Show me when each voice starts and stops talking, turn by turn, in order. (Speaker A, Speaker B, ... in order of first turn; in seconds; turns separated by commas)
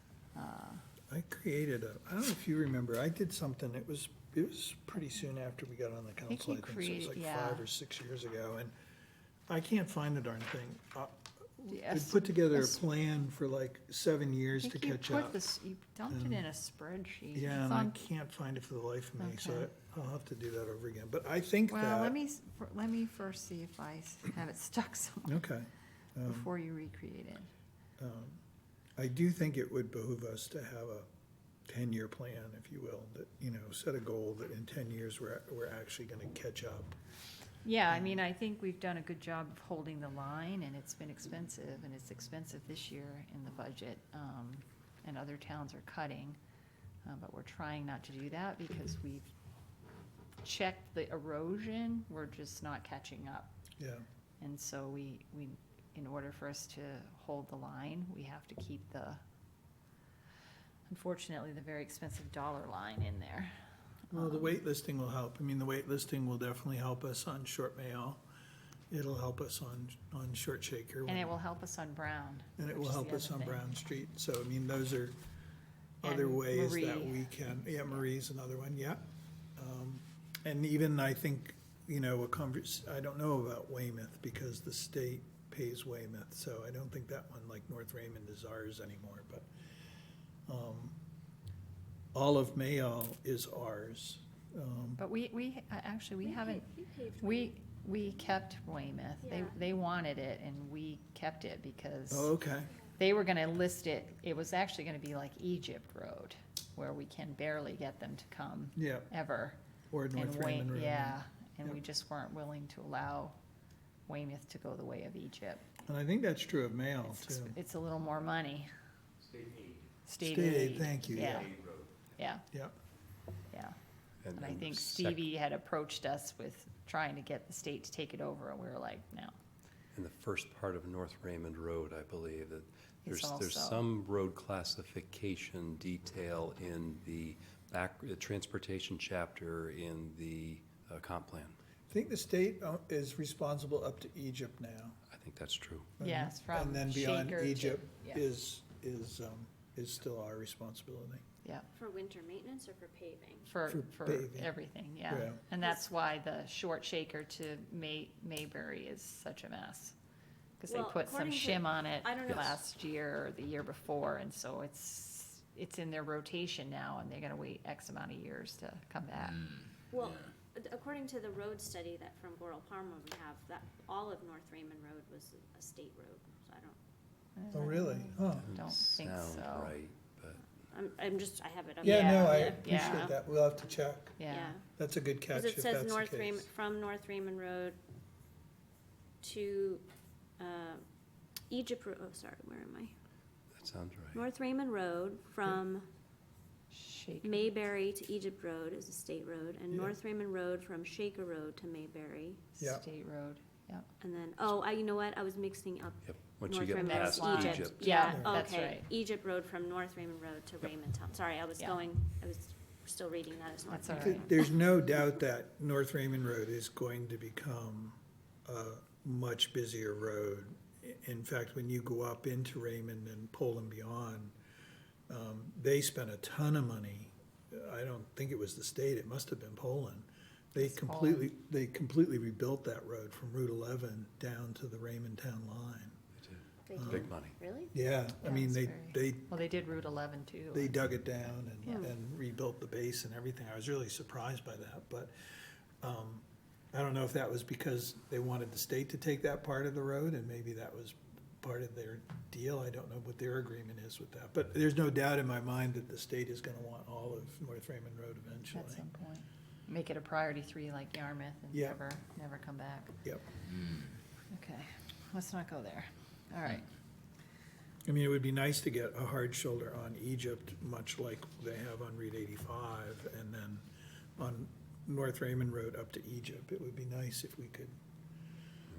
Speaker A: 0.3-0.8, Speaker B: 1.1-8.7, Speaker A: 6.3-7.7, Speaker B: 9.5-15.4, Speaker A: 11.7-12.8, Speaker A: 14.6-17.9, Speaker B: 16.1-16.4, Speaker B: 17.3-22.1, Speaker A: 19.2-19.7, Speaker A: 21.7-25.4, Speaker B: 25.2-26.5, Speaker A: 26.2-27.5, Speaker B: 28.0-28.4, Speaker B: 29.0-31.1, Speaker B: 31.6-37.0, Speaker A: 37.6-46.4, Speaker A: 47.0-49.3, Speaker A: 50.4-53.5, Speaker B: 53.8-54.0, Speaker A: 54.4-59.2, Speaker A: 60.9-63.5, Speaker A: 64.1-64.5, Speaker B: 64.1-68.2, Speaker B: 68.9-71.3, Speaker A: 71.1-73.6, Speaker B: 72.6-75.2, Speaker B: 76.0-79.0, Speaker A: 76.0-77.3, Speaker B: 79.6-89.5, Speaker B: 90.5-90.9, Speaker B: 92.1-95.0, Speaker A: 95.0-96.7, Speaker C: 96.3-97.5, Speaker A: 97.2-102.3, Speaker C: 99.2-99.5, Speaker B: 102.1-102.7, Speaker A: 103.0-109.6, Speaker B: 108.8-109.1, Speaker B: 109.9-111.8, Speaker A: 110.1-113.4, Speaker A: 114.1-115.6, Speaker B: 115.8-117.6, Speaker A: 117.0-118.7, Speaker D: 119.2-119.9, Speaker A: 120.0-121.5, Speaker B: 120.2-121.5, Speaker D: 121.1-122.0, Speaker A: 122.2-122.5, Speaker A: 123.5-123.7, Speaker D: 124.2-125.2, Speaker A: 124.3-129.4, Speaker D: 129.9-141.6, Speaker A: 133.0-133.9, Speaker B: 141.9-145.0, Speaker D: 145.1-145.9, Speaker B: 146.0-151.2, Speaker A: 146.0-148.2, Speaker C: 151.7-153.5, Speaker A: 153.5-159.9, Speaker B: 153.7-154.5, Speaker B: 155.1-155.4, Speaker A: 160.6-169.5, Speaker C: 160.7-162.6, Speaker C: 169.9-176.8, Speaker A: 177.3-179.8, Speaker B: 177.5-178.5, Speaker D: 178.4-180.4, Speaker C: 180.7-183.1, Speaker B: 181.8-184.2, Speaker A: 181.8-183.1, Speaker A: 184.2-184.5, Speaker C: 184.3-184.6, Speaker B: 184.8-186.5, Speaker C: 185.3-187.8, Speaker C: 189.2-189.8, Speaker C: 190.4-190.8, Speaker C: 191.5-192.9, Speaker D: 193.5-194.2, Speaker C: 194.1-195.9, Speaker A: 196.7-197.5, Speaker C: 197.2-202.4, Speaker A: 202.6-203.9, Speaker B: 202.6-202.8, Speaker C: 204.0-214.5, Speaker D: 206.1-208.2, Speaker A: 206.8-208.9, Speaker B: 208.1-208.4, Speaker A: 213.7-214.3, Speaker B: 213.9-224.3, Speaker B: 225.1-235.9, Speaker A: 230.6-231.3, Speaker D: 236.2-237.4, Speaker C: 236.7-237.7, Speaker B: 236.8-237.1, Speaker B: 237.7-239.3, Speaker A: 238.2-240.8, Speaker B: 240.5-245.1, Speaker C: 241.7-241.9, Speaker B: 245.8-258.8, Speaker A: 258.5-263.0, Speaker B: 261.5-261.8, Speaker A: 264.3-266.7, Speaker B: 267.9-273.6, Speaker B: 274.2-277.7